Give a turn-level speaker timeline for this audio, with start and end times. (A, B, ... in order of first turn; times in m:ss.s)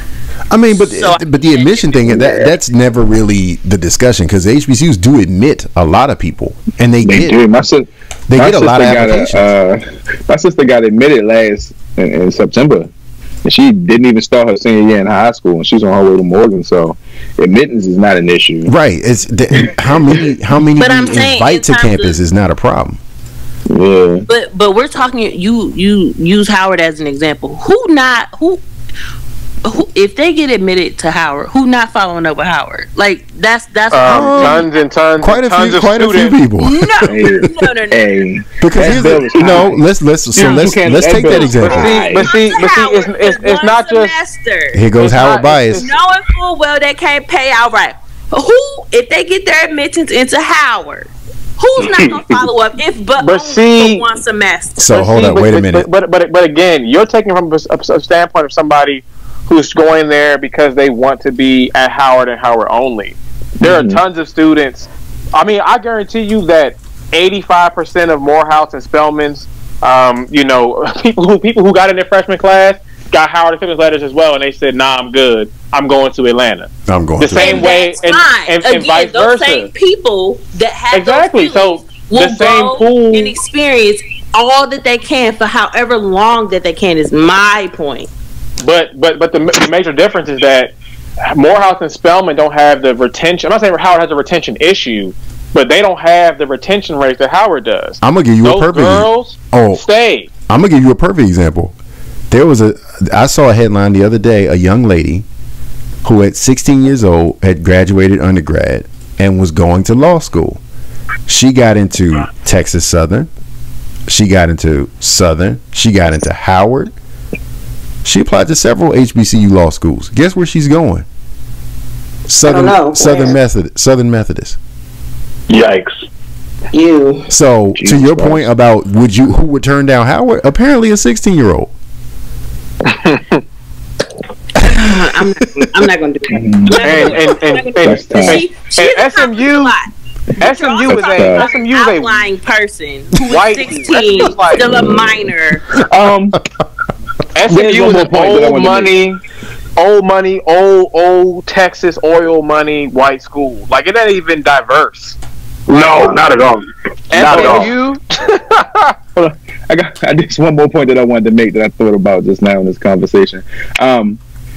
0:00.5-0:07.4 A
0:00.8-0:02.5 B
0:07.0-0:12.9 C
0:08.3-0:09.5 A
0:13.4-0:18.7 C
0:18.7-0:23.0 A
0:20.8-0:22.2 B
0:23.7-0:24.3 C
0:24.3-0:28.6 B
0:29.6-0:34.7 B
0:33.9-0:36.4 D
0:34.0-0:34.7 A
0:35.2-0:37.5 A
0:36.6-0:38.2 B
0:37.1-0:39.8 C
0:38.6-0:42.0 A
0:40.3-0:42.3 C
0:40.4-0:40.7 B
0:41.3-0:44.9 B
0:41.6-0:44.1 D
0:44.7-0:45.9 A
0:45.0-0:45.9 D
0:45.7-0:54.9 B
0:53.2-0:54.1 D
0:54.8-0:55.9 A
0:54.9-1:19.7 D
1:03.6-1:04.0 C
1:16.9-1:17.7 A
1:17.4-1:28.1 B
1:20.9-1:23.4 D
1:28.6-1:30.7 D
1:31.3-1:40.3 D
1:38.0-1:39.8 A
1:40.5-1:41.7 A
1:42.3-1:45.2 A
1:46.0-1:50.6 A
1:51.3-1:53.3 A
1:54.1-1:56.9 A
1:58.0-2:01.1 A
2:02.3-2:04.6 A
2:02.5-2:03.3 B
2:05.5-2:05.9 E
2:06.7-2:07.3 B
2:07.3-2:11.7 A
2:07.8-2:08.4 C
2:12.9-2:13.4 D
2:14.6-2:19.9 B
2:16.3-2:17.1 C
2:16.8-2:19.8 D
2:17.8-2:18.4 C
2:20.4-2:22.3 D
2:20.4-2:25.7 B
2:20.9-2:21.5 C
2:23.3-2:24.9 D
2:24.7-2:25.1 C
2:25.7-2:26.4 C
2:27.4-2:29.2 D
2:27.5-2:28.9 C
2:29.8-2:35.2 D
2:35.7-2:37.7 E
2:37.1-2:39.0 D
2:37.2-2:37.8 C
2:39.2-2:44.2 C